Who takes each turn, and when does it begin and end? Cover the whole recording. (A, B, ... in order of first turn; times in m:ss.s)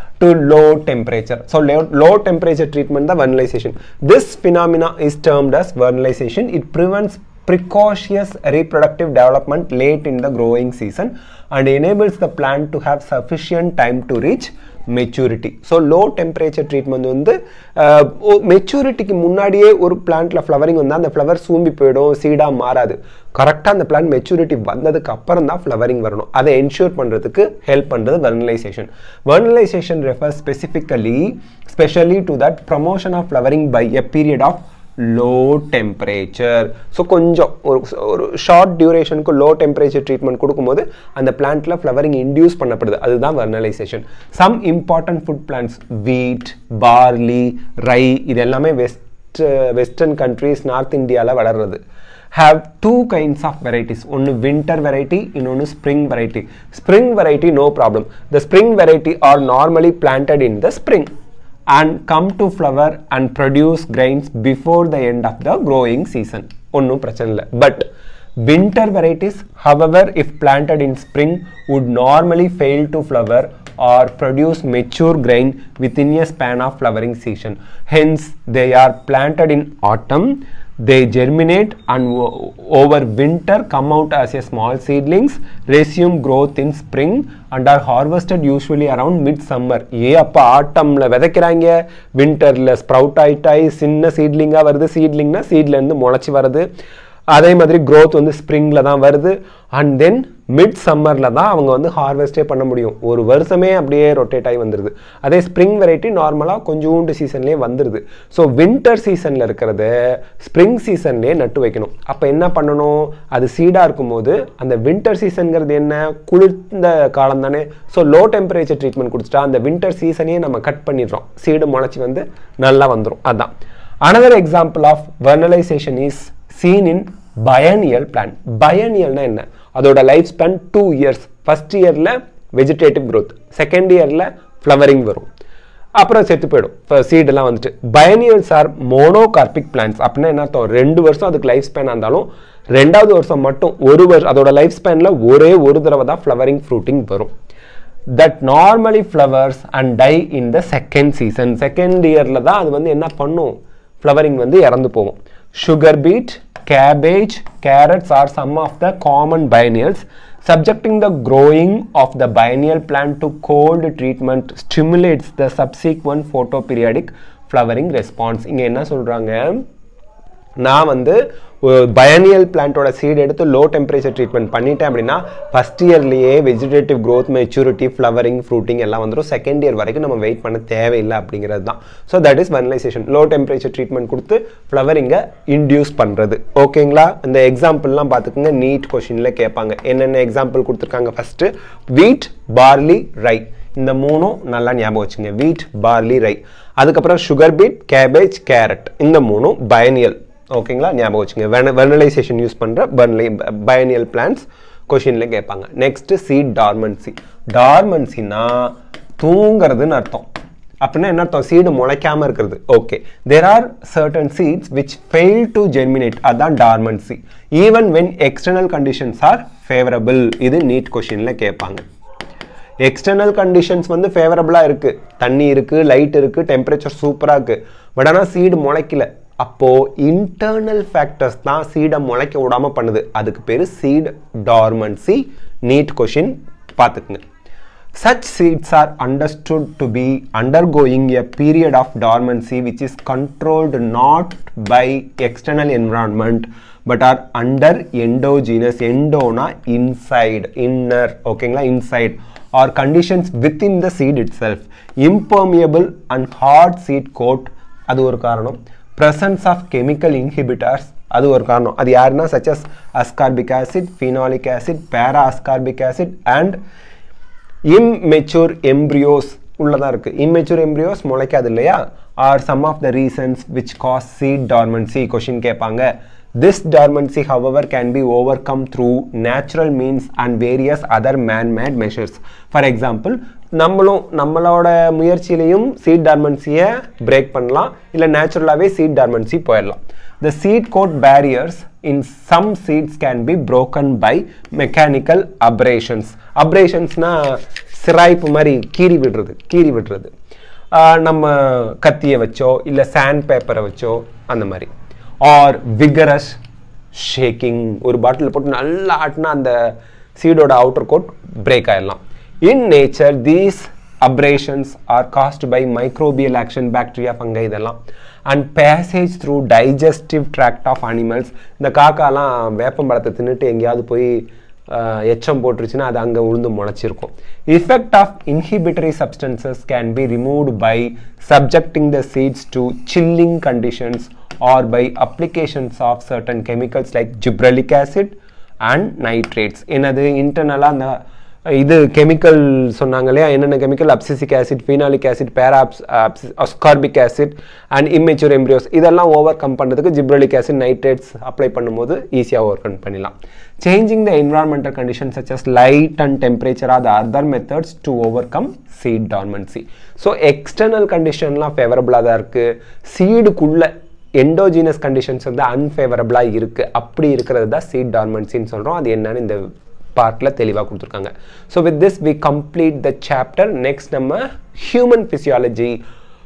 0:00.2-0:51.8 A
0:52.3-1:01.1 A
1:01.7-1:07.9 A
1:08.4-1:36.7 A
1:37.3-2:03.5 A
2:04.0-2:15.2 A
2:16.0-2:27.3 A
2:28.1-2:49.6 A
2:50.6-3:30.3 A
3:30.8-3:41.8 A
3:42.8-3:57.2 A
3:58.0-4:26.6 A
4:27.7-5:00.1 A
5:00.7-5:04.7 A
5:05.2-5:06.4 A
5:06.9-6:09.4 A
6:09.9-6:15.8 A